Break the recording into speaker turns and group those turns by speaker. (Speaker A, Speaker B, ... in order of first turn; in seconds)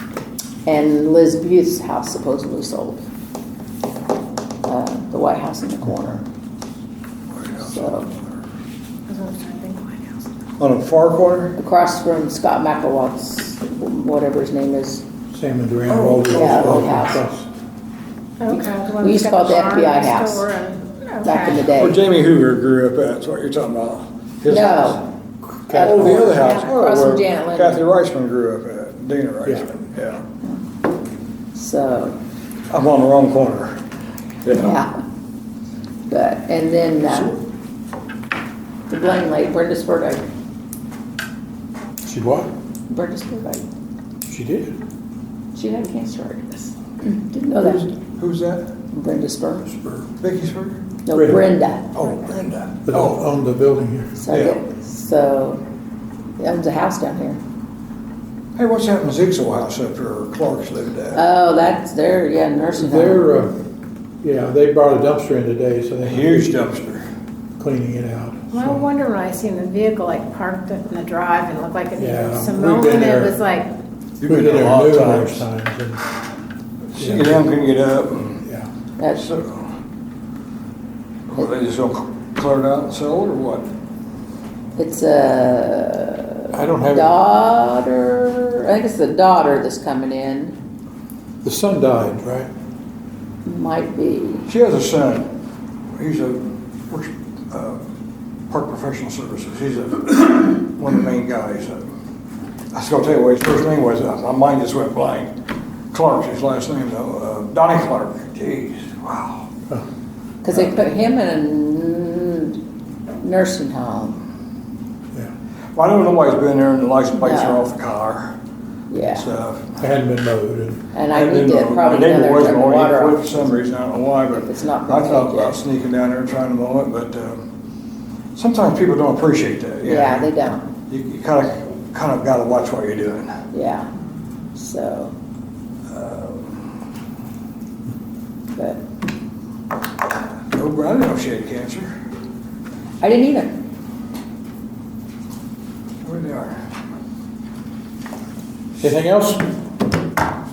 Speaker A: 0.7-3.0, 4.7-6.2, 7.6-8.1, 11.6-15.1, 16.3-17.2, 18.5-20.5, 21.2-22.0, 24.5-25.1, 25.7-27.9, 31.5-32.2, 34.5-34.9, 36.1-37.4, 38.9-40.2, 42.9-43.7, 45.5-47.9, 48.9-49.8, 51.0-51.9, 54.2-55.6, 56.4-57.4, 61.1-63.3, 84.8-90.6, 93.5-94.5, 110.4-112.6, 113.2-114.2, 117.1-117.7, 118.9-119.3, 120.9-123.6, 124.3-125.6, 129.8-130.7, 133.5-133.9, 134.6-135.1, 138.5-138.8, 143.0-143.6
Speaker B: 7.3-8.0, 10.6-11.6, 15.9-17.1, 21.7-25.0, 25.7-30.2, 32.7-33.8, 34.4-34.8, 47.6-48.7, 50.1-50.8, 51.9-53.2, 54.3-54.6, 58.6-61.2, 66.0-67.1, 74.2-75.4, 76.9-78.5, 79.1-79.7, 81.3-83.7, 94.5-95.3, 96.0-97.8, 98.5-101.8, 102.7-105.3, 105.9-109.5, 115.8-118.4, 119.1-119.8, 121.1-127.4, 128.3-130.3, 130.9-133.4, 135.9-136.6, 140.5-141.9, 146.0-146.6
Speaker C: 9.1-10.3, 18.4-21.7, 26.3-26.6, 68.5-73.7
Speaker D: 15.3-17.5, 25.7-26.4, 42.0-42.5, 44.3-44.8, 51.1-51.5, 52.9-54.2, 62.8-63.6, 64.2-66.5, 67.6-68.8, 72.0-73.4, 74.3-76.0, 77.0-77.4, 78.4-78.7, 86.5-87.1, 91.4-92.5, 119.8-120.9, 148.8-149.4